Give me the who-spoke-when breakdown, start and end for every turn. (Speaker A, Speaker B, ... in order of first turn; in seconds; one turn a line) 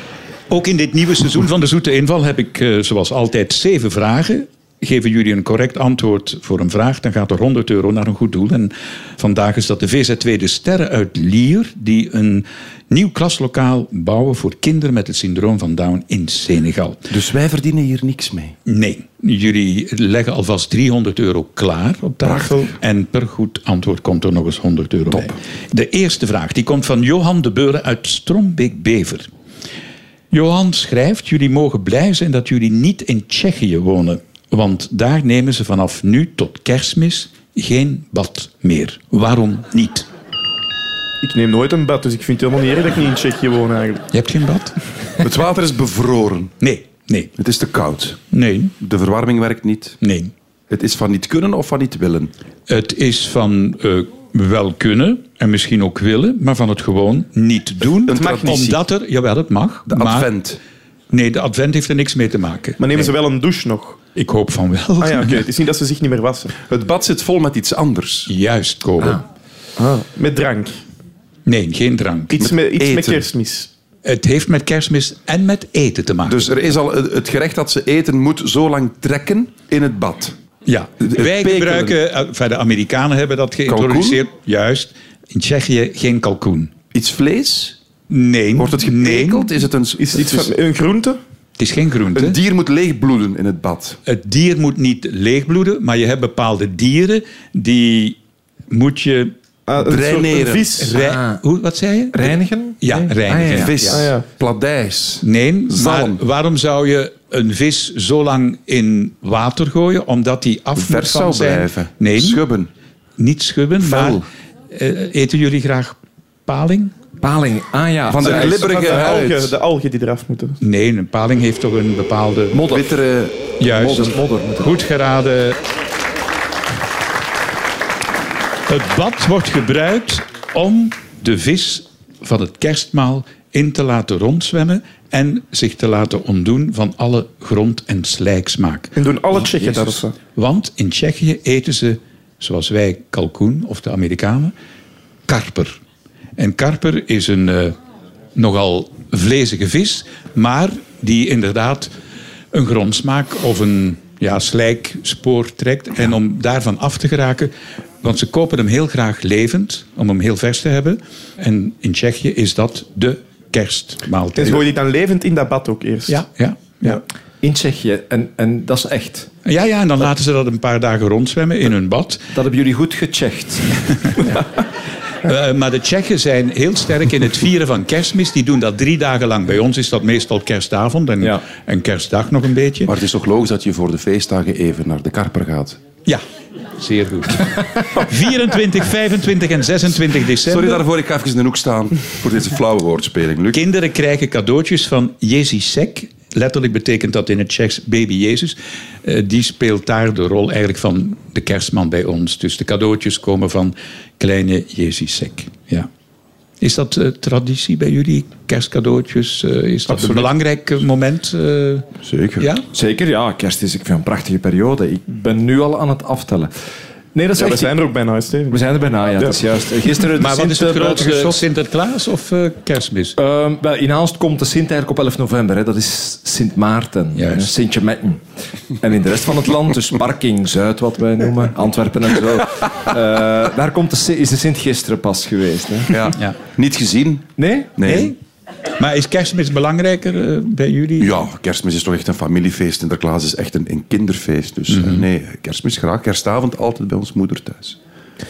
Speaker A: 0.5-17.1
Speaker B: 17.1-18.6
Speaker A: 18.6-29.3
Speaker B: 22.2-22.8
Speaker B: 25.1-25.4
Speaker A: 30.3-40.1
Speaker C: 41.2-44.0
Speaker A: 44.1-44.7
Speaker B: 45.2-46.5
Speaker A: 46.6-47.3
Speaker B: 47.4-48.2
Speaker A: 48.3-48.7
Speaker B: 48.8-50.0
Speaker A: 50.0-50.3
Speaker B: 50.7-52.3
Speaker A: 52.7-60.3
Speaker B: 58.0-58.8
Speaker C: 58.1-58.6
Speaker B: 59.9-60.6
Speaker A: 61.1-63.1
Speaker C: 62.8-64.0
Speaker A: 64.1-65.5
Speaker C: 65.0-66.5
Speaker B: 66.7-68.3
Speaker A: 68.3-69.2
Speaker C: 69.8-70.8
Speaker A: 71.5-72.5
Speaker C: 72.3-73.7
Speaker B: 72.4-73.3
Speaker A: 74.0-76.5
Speaker B: 76.3-80.3
Speaker A: 80.7-86.7
Speaker B: 81.0-82.0
Speaker B: 83.7-84.2
Speaker B: 86.9-87.8
Speaker A: 88.1-89.6
Speaker B: 88.5-90.5
Speaker C: 90.0-91.2
Speaker A: 91.6-92.4
Speaker B: 92.1-94.0
Speaker A: 94.0-98.2
Speaker A: 98.7-99.3
Speaker C: 99.7-100.9
Speaker B: 99.8-100.8
Speaker A: 100.8-104.0
Speaker D: 100.9-101.4
Speaker D: 102.1-104.0
Speaker B: 103.5-106.2
Speaker C: 103.9-104.2
Speaker A: 105.2-112.4
Speaker B: 110.7-112.7
Speaker A: 113.2-116.9
Speaker B: 113.8-114.2
Speaker D: 117.2-118.7
Speaker B: 118.1-119.5
Speaker C: 118.2-120.6
Speaker A: 120.6-122.6
Speaker B: 122.5-124.1
Speaker A: 123.6-125.6
Speaker D: 123.8-124.8
Speaker A: 128.7-144.5
Speaker C: 138.9-140.1
Speaker A: 145.3-145.8
Speaker A: 146.4-147.7
Speaker A: 148.3-151.9
Speaker A: 152.5-164.6
Speaker C: 164.4-166.2
Speaker A: 166.1-167.0
Speaker D: 167.4-169.3
Speaker A: 169.4-172.2
Speaker D: 172.3-174.2
Speaker A: 175.2-182.9
Speaker B: 182.8-185.8
Speaker A: 186.8-190.8
Speaker B: 190.4-193.6
Speaker A: 193.5-205.9
Speaker A: 206.6-211.9
Speaker C: 209.9-210.3
Speaker B: 212.0-212.5
Speaker A: 212.4-212.7
Speaker D: 212.7-216.5
Speaker D: 217.1-217.8
Speaker C: 217.4-218.6
Speaker D: 218.5-221.4
Speaker A: 220.2-223.2
Speaker D: 223.2-228.2
Speaker A: 227.2-227.5
Speaker D: 228.8-236.0
Speaker B: 235.9-238.1
Speaker D: 237.4-237.7
Speaker A: 237.8-238.1
Speaker A: 238.8-241.2
Speaker B: 241.0-247.8
Speaker A: 244.7-245.0